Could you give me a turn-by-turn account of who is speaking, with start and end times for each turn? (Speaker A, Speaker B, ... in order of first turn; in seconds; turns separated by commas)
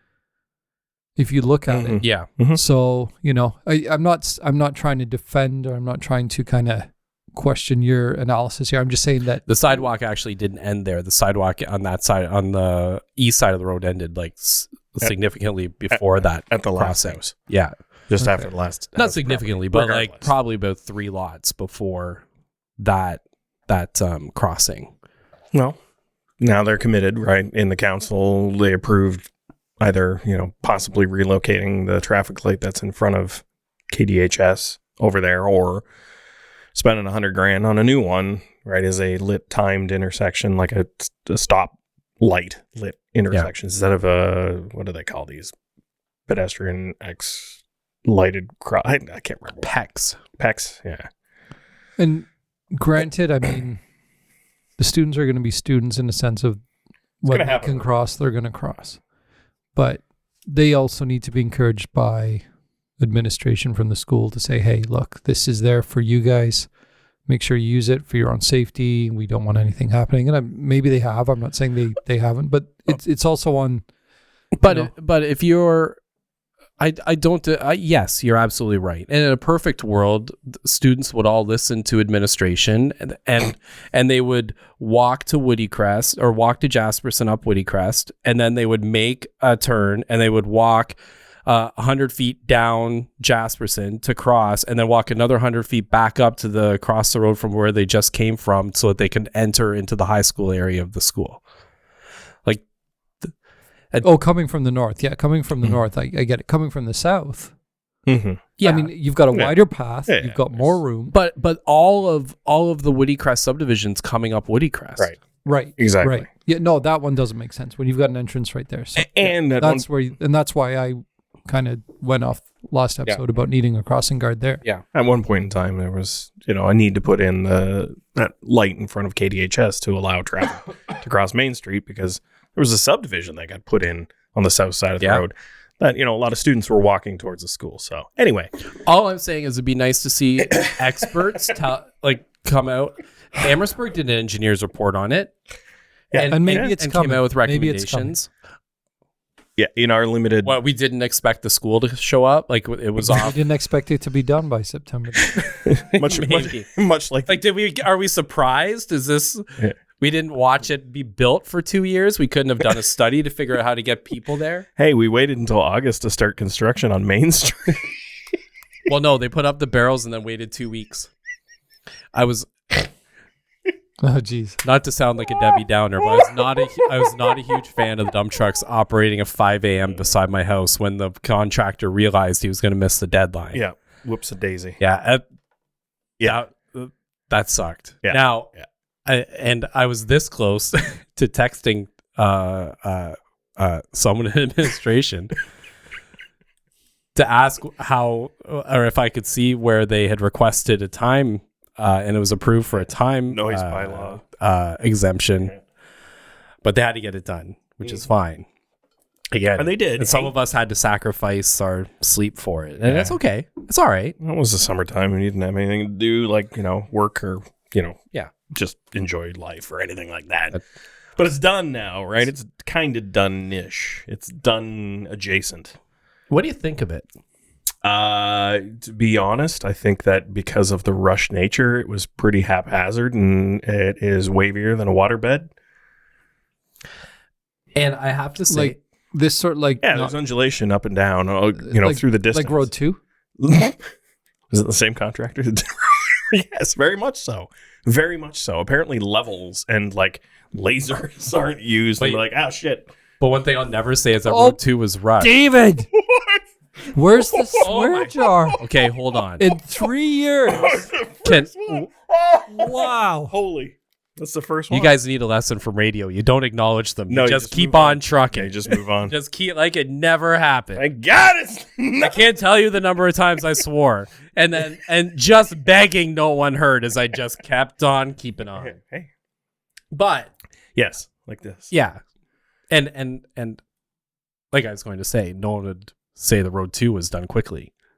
Speaker A: 1.2-9.5, Speaker B: 1.7-2.6, Speaker C: 2.0-2.3, Speaker C: 9.5-17.7, Speaker B: 15.9-17.3, Speaker B: 18.1-20.3, Speaker C: 18.9-22.2, Speaker C: 22.8-24.9, Speaker B: 26.4-35.9, Speaker B: 36.8-45.5, Speaker B: 46.3-49.7, Speaker C: 49.6-50.2, Speaker B: 50.4-51.1, Speaker A: 52.0-53.8, Speaker A: 54.8-56.6, Speaker A: 57.2-59.0, Speaker B: 57.3-57.9, Speaker A: 59.8-62.5, Speaker A: 63.0-66.7, Speaker A: 67.3-73.8, Speaker C: 74.6-76.0, Speaker A: 74.6-74.9, Speaker C: 76.8-101.4, Speaker A: 104.0-107.5, Speaker B: 108.1-108.5, Speaker C: 108.6-108.9, Speaker A: 108.6-111.2, Speaker B: 109.3-110.8, Speaker C: 111.1-115.1, Speaker A: 115.5-124.6, Speaker B: 115.8-116.3, Speaker B: 119.0-119.9, Speaker B: 124.9-138.5, Speaker C: 138.9-145.3, Speaker B: 146.1-146.7, Speaker C: 146.1-148.3, Speaker A: 146.3-148.2, Speaker B: 149.6-150.6, Speaker C: 150.4-153.3, Speaker A: 153.0-155.5, Speaker B: 155.8-157.3, Speaker C: 155.9-156.7, Speaker C: 157.3-164.7, Speaker B: 164.8-167.9, Speaker C: 168.9-171.1, Speaker C: 172.1-172.9, Speaker A: 174.0-174.6, Speaker C: 174.6-183.6, Speaker B: 183.5-184.8, Speaker C: 184.8-185.2, Speaker C: 186.2-188.5, Speaker B: 188.0-188.7, Speaker C: 189.1-195.3, Speaker C: 197.2-205.5, Speaker B: 203.3-204.2, Speaker C: 206.6-208.5, Speaker C: 209.3-214.2, Speaker B: 209.6-210.3, Speaker B: 212.8-213.2, Speaker B: 214.2-220.6, Speaker B: 221.2-225.8, Speaker C: 226.3-227.1, Speaker B: 227.8-235.5, Speaker C: 237.8-238.8, Speaker A: 238.5-240.1, Speaker B: 239.8-242.7, Speaker A: 241.6-243.0, Speaker B: 243.4-243.8, Speaker B: 244.5-252.9, Speaker C: 253.2-255.3, Speaker A: 254.3-254.6, Speaker A: 255.2-255.9, Speaker B: 255.9-256.4, Speaker A: 256.9-258.6, Speaker B: 257.3-257.7, Speaker C: 257.6-259.4, Speaker A: 259.4-260.9, Speaker B: 260.5-264.9, Speaker C: 261.2-261.9, Speaker A: 262.5-263.3, Speaker C: 264.7-270.8, Speaker B: 267.1-269.1, Speaker B: 270.7-272.3, Speaker C: 272.0-278.7, Speaker B: 278.6-279.1, Speaker C: 279.9-280.3, Speaker B: 280.8-281.7, Speaker C: 281.7-282.0, Speaker C: 282.7-283.6, Speaker C: 284.5-287.7